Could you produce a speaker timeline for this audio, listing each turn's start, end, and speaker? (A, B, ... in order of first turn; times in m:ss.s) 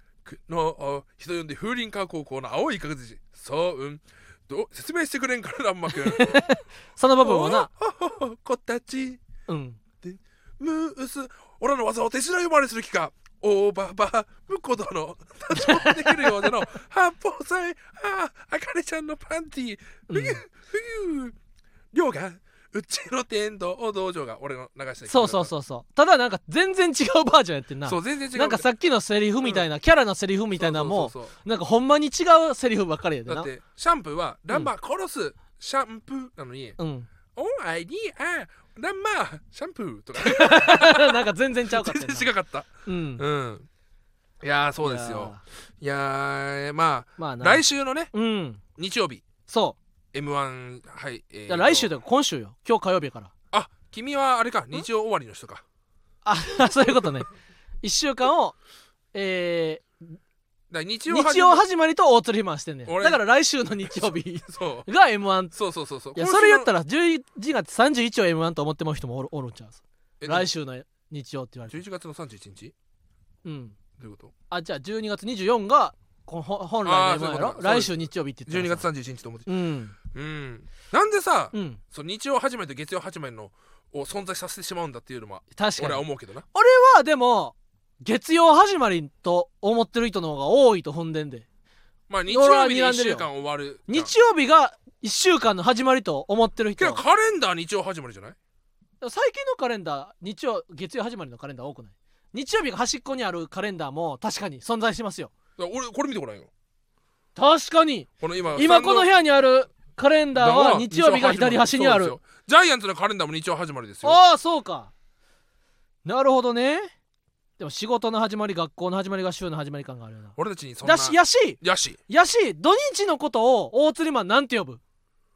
0:00.2-0:06.4 A
0:05.9-0:07.7 B
0:07.2-0:09.2 A
0:09.5-0:09.8 B
0:10.0-0:21.4 A
0:15.5-0:16.5 B
0:20.1-0:20.4 B
0:21.9-0:25.5 A
0:25.1-0:33.5 B
0:27.8-0:28.6 A
0:30.6-0:31.3 A
0:33.3-0:36.8 A
0:36.8-0:37.1 B
0:37.3-0:43.7 A
0:40.2-0:42.3 B
0:42.8-0:43.2 B
0:44.4-0:48.1 A
0:44.8-0:45.4 B
0:47.2-0:48.6 B
0:48.8-0:49.2 A
0:49.5-0:49.8 B
0:50.1-0:51.9 A
0:51.5-0:53.3 B
0:53.5-0:55.6 A
0:56.2-0:57.3 B
0:57.8-0:58.6 B
0:59.1-1:00.2 B
1:00.7-1:01.6 A
1:01.1-1:05.5 B
1:02.8-1:03.2 A
1:03.9-1:04.9 A
1:05.5-1:06.7 A
1:06.1-1:11.8 B
1:10.2-1:10.5 A
1:11.7-1:12.7 A
1:13.4-1:13.8 B
1:14.0-1:14.3 A
1:14.5-1:18.8 B
1:16.8-1:19.5 A
1:19.4-1:20.0 B
1:20.0-1:26.4 A
1:21.5-1:21.8 B
1:25.5-1:31.4 B
1:32.1-1:34.1 A
1:32.3-1:33.3 B
1:33.9-1:37.0 B
1:36.8-1:38.4 A
1:39.0-1:45.3 B
1:45.6-1:46.5 A
1:47.4-1:52.2 B
1:48.2-1:49.1 A
1:50.3-1:54.2 A
1:54.0-1:54.9 B
1:56.0-1:56.9 B
1:57.6-2:04.8 B
2:00.4-2:02.0 A